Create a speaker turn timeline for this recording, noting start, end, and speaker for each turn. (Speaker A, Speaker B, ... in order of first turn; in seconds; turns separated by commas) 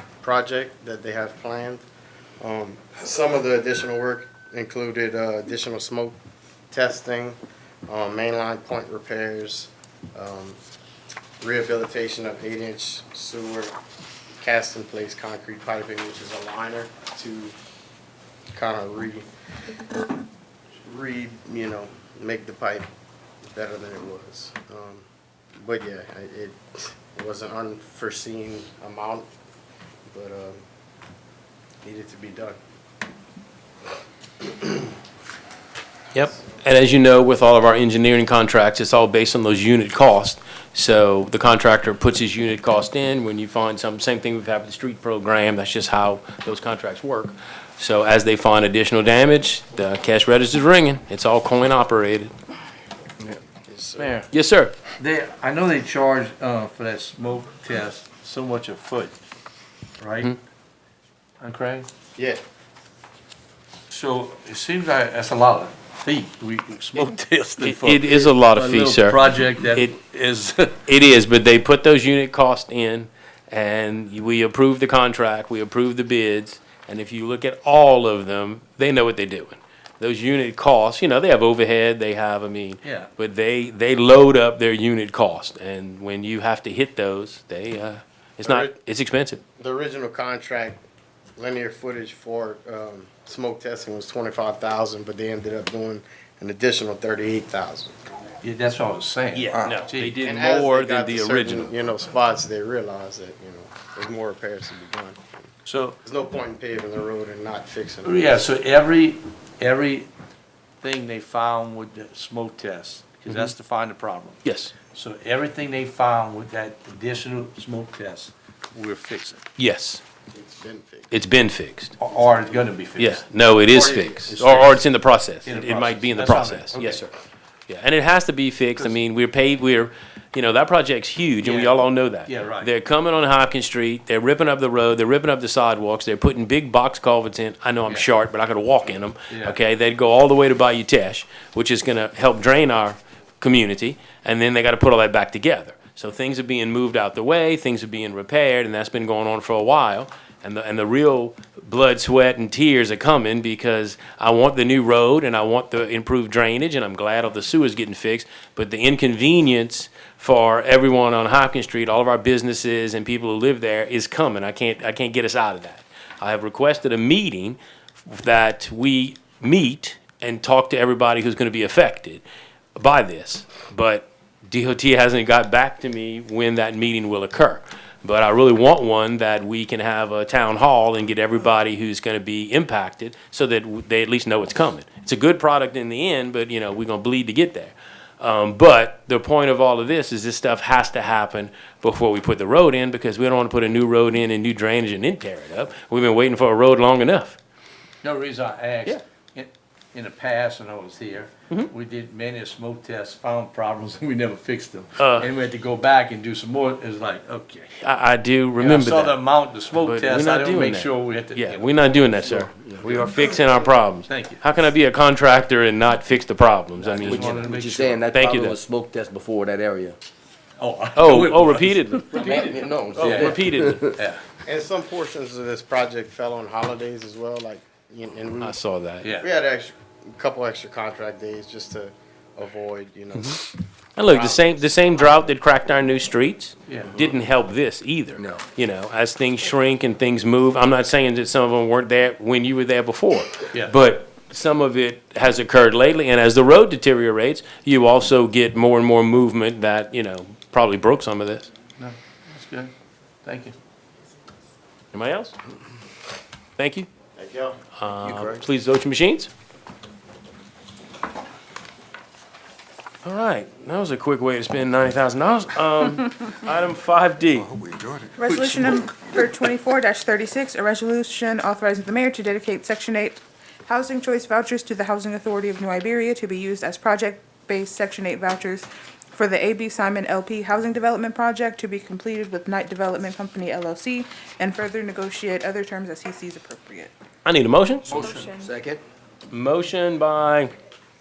Speaker A: 0.2-1.8, Speaker A: 2.4-6.2, Speaker A: 6.7-10.6, Speaker A: 11.4-13.7, Speaker A: 14.4-17.6, Speaker A: 18.6-19.2, Speaker A: 20.8-22.9, Speaker A: 23.5-25.1, Speaker A: 25.6-29.3, Speaker A: 30.1-30.6, Speaker A: 31.8-32.6, Speaker B: 36.1-52.3, Speaker A: 53.7-54.2, Speaker C: 54.0-54.3, Speaker B: 54.3-54.8, Speaker C: 55.0-59.2, Speaker C: 60.0-60.3, Speaker C: 61.4-61.9, Speaker A: 62.2-62.4, Speaker C: 63.9-70.8, Speaker B: 67.0-69.9, Speaker B: 70.9-89.4, Speaker C: 82.8-83.1, Speaker A: 88.4-88.8, Speaker A: 89.6-90.8, Speaker A: 91.4-98.0, Speaker C: 98.4-100.2, Speaker B: 99.3-101.7, Speaker A: 100.2-105.5, Speaker C: 105.7-106.0, Speaker A: 106.0-108.4, Speaker C: 108.0-110.1, Speaker C: 110.8-119.4, Speaker B: 114.4-114.7, Speaker B: 119.6-120.0, Speaker A: 120.3-121.1, Speaker B: 121.1-121.9, Speaker C: 122.0-124.8, Speaker B: 123.0-127.1, Speaker C: 125.4-127.0, Speaker B: 127.7-172.2, Speaker C: 131.4-132.7, Speaker C: 139.3-139.6, Speaker B: 172.8-197.4, Speaker C: 198.0-207.7, Speaker B: 205.0-205.3, Speaker B: 207.8-209.2, Speaker C: 208.6-211.8, Speaker B: 209.8-217.5, Speaker D: 212.3-212.9, Speaker C: 214.1-214.4, Speaker C: 216.8-218.1, Speaker D: 217.1-220.0, Speaker B: 218.1-218.6, Speaker C: 220.6-221.9, Speaker B: 221.0-223.9, Speaker D: 222.1-223.9, Speaker C: 222.9-223.4, Speaker C: 224.0-224.2, Speaker A: 224.4-228.6, Speaker B: 228.4-229.1, Speaker C: 229.0-229.3, Speaker A: 229.2-235.2, Speaker B: 233.2-233.4, Speaker B: 234.0-251.5, Speaker C: 236.7-237.0, Speaker C: 251.8-252.7, Speaker C: 253.2-253.6, Speaker B: 254.9-255.3, Speaker B: 256.6-256.9, Speaker A: 257.2-257.6, Speaker B: 257.8-259.3, Speaker D: 258.0-258.4, Speaker B: 263.0-267.5, Speaker D: 267.6-268.1, Speaker E: 268.2-286.9, Speaker C: 268.3-268.8, Speaker B: 287.2-288.1, Speaker D: 287.9-288.8, Speaker E: 287.9-288.5, Speaker B: 289.3-290.5